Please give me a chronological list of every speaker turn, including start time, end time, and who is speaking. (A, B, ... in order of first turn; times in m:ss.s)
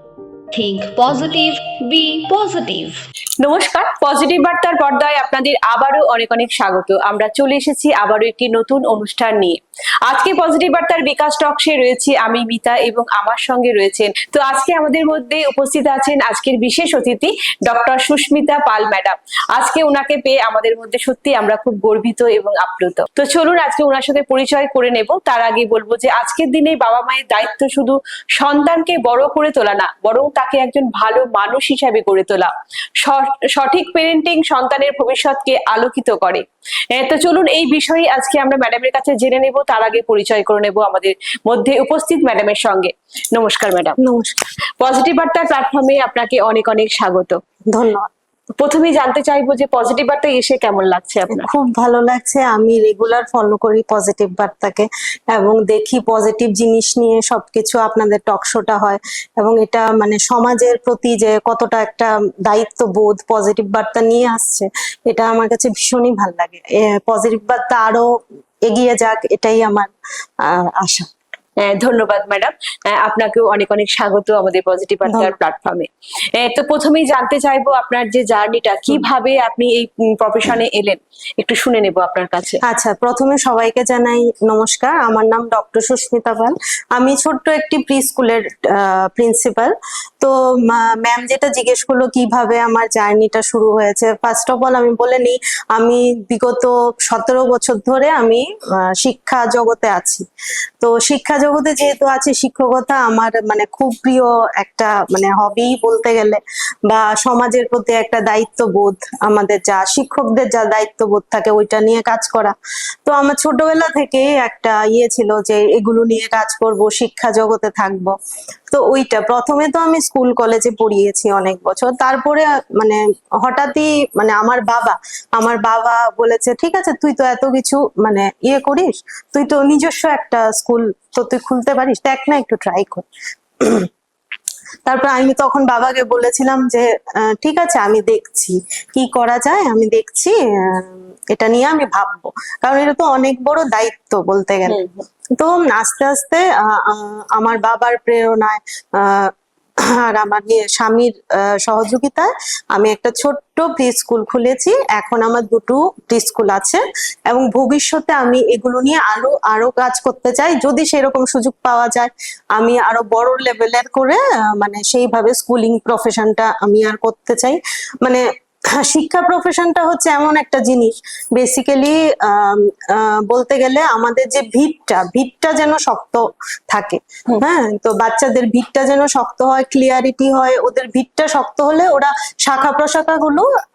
0:00.5-0:03.0 A
0:03.4-0:44.0 B
0:44.0-0:44.4 C
0:44.8-0:47.4 B
0:47.7-0:48.1 C
0:48.6-0:51.5 B
0:51.3-1:09.9 C
1:10.4-1:11.1 C
1:11.6-1:22.6 B
1:15.0-1:15.3 C
1:22.6-1:40.2 C
1:40.8-1:58.1 C
1:58.7-2:13.1 C
2:13.6-2:13.9 C
2:14.8-2:24.8 C
2:24.6-2:25.0 B
2:25.4-2:29.3 C
2:29.9-3:03.5 C